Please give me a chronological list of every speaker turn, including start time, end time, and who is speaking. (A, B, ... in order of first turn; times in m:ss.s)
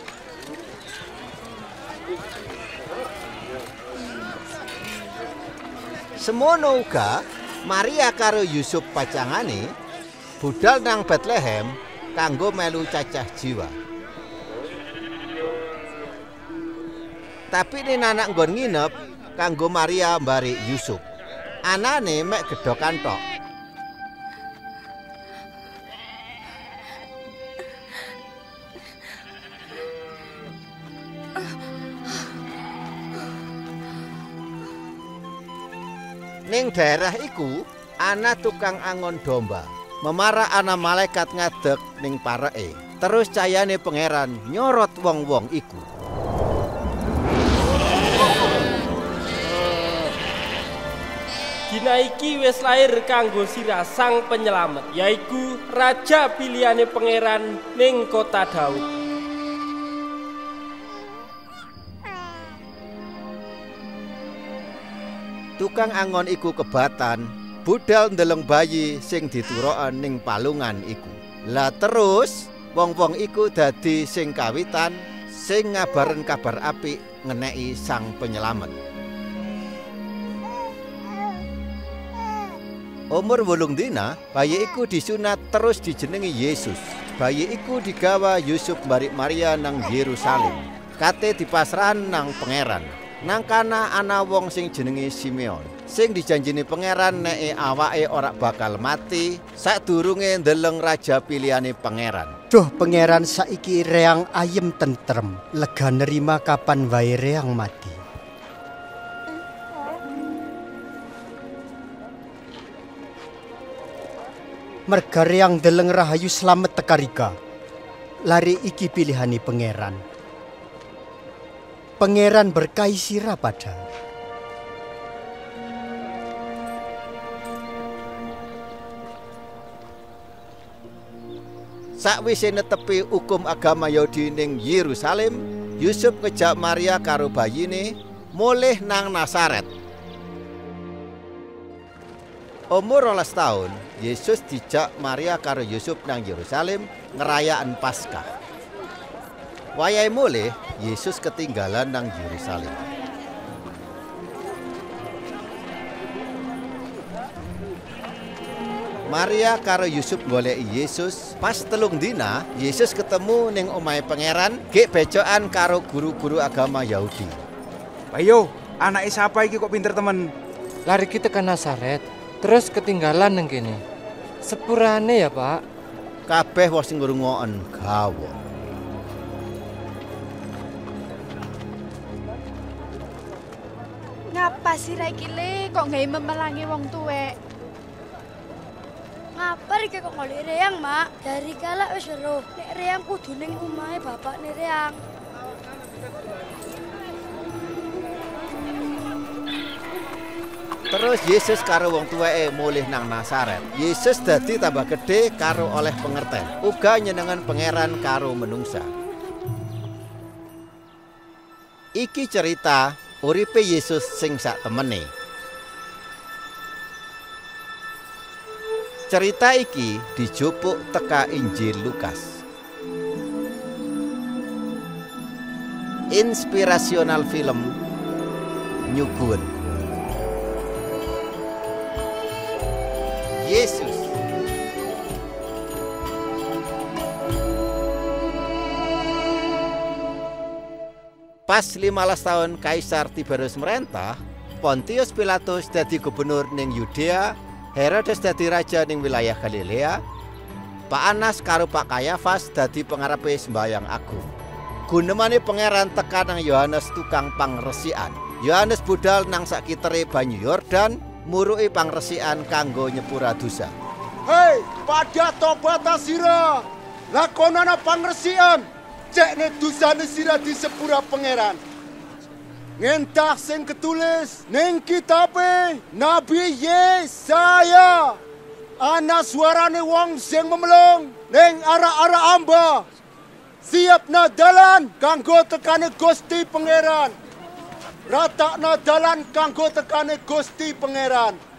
0:06.2-0:09.7 A
0:10.4-0:13.8 A
0:17.5-0:21.0 A
0:21.6-0:23.2 A
0:36.5-0:45.9 A
0:51.7-0:58.9 B
1:05.6-1:18.8 A
1:23.1-1:42.3 A
1:42.5-1:48.0 C
1:54.9-1:57.4 C
1:58.2-2:00.0 C
2:02.0-2:03.8 C
2:12.0-2:19.7 A
2:22.7-2:28.3 A
2:29.8-2:32.8 A
2:39.1-2:47.4 A
2:48.1-2:50.2 D
2:50.9-2:53.8 E
2:54.4-2:55.6 E
2:56.3-2:58.4 A
3:04.3-3:07.4 F
3:09.4-3:15.0 G
3:20.9-3:28.9 A
3:32.0-3:35.1 A
3:39.1-3:42.4 A
3:46.1-3:47.7 A
3:48.9-3:49.6 A
3:53.4-3:54.2 A
4:01.5-4:10.0 A
4:10.9-4:14.3 A
4:14.9-4:23.7 A
4:24.3-4:31.6 H
4:32.8-4:38.2 H
4:38.8-4:42.9 H
4:43.6-4:47.2 H
4:48.1-4:51.4 H